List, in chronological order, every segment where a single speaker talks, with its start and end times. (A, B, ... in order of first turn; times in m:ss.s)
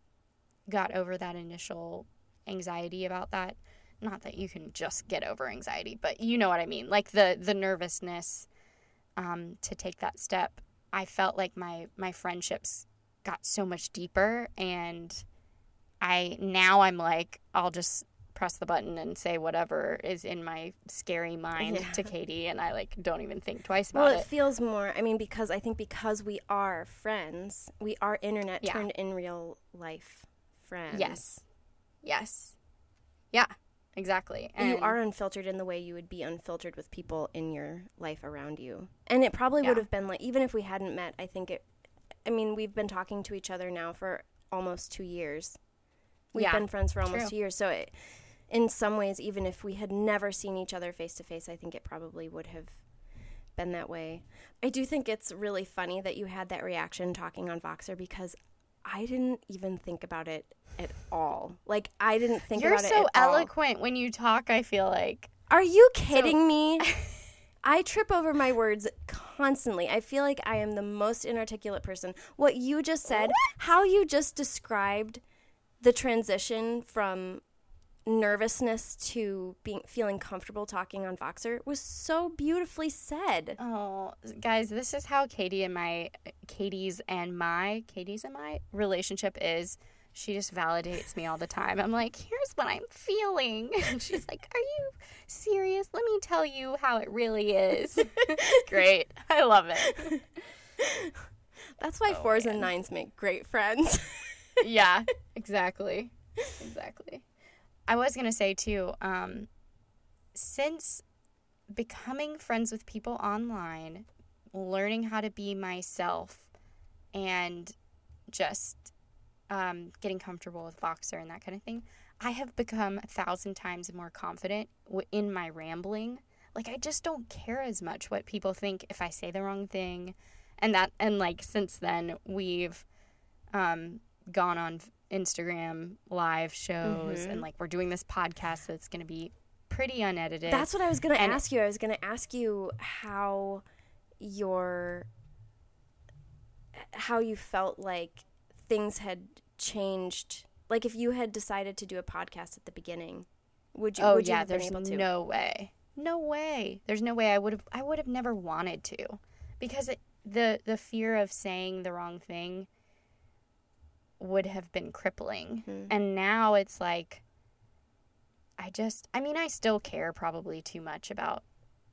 0:00.7-0:08.5 A
0:09.2-0:15.2 A
0:16.0-0:24.3 A
0:21.6-0:22.1 B
0:23.9-0:31.2 B
0:30.9-0:31.4 A
0:32.0-0:32.6 A
0:33.3-0:35.0 A
0:34.6-0:41.7 B
0:42.2-0:45.6 B
0:46.3-0:52.8 B
0:46.4-0:47.3 A
0:53.6-1:03.5 B
1:02.6-1:05.3 A
1:05.5-1:06.8 B
1:06.1-1:07.2 A
1:07.6-1:15.2 B
1:13.1-1:13.5 A
1:15.8-1:17.4 B
1:18.1-1:23.6 B
1:23.6-1:40.2 A
1:38.3-1:38.7 B
1:39.9-1:40.2 B
1:40.8-1:41.2 B
1:41.8-1:44.6 B
1:42.1-1:42.7 A
1:44.6-1:47.2 A
1:47.9-1:49.5 A
1:50.3-1:51.0 A
1:51.7-1:56.5 A
1:57.1-1:57.8 A
1:58.3-1:58.9 A
1:59.5-2:12.9 A
2:13.5-2:21.4 A
2:16.8-2:17.5 B
2:20.5-2:23.6 B
2:24.2-2:25.1 B
2:26.8-2:35.1 B
2:34.0-2:42.7 A
2:44.2-2:47.2 A
2:45.7-2:45.9 B
2:48.6-2:51.4 A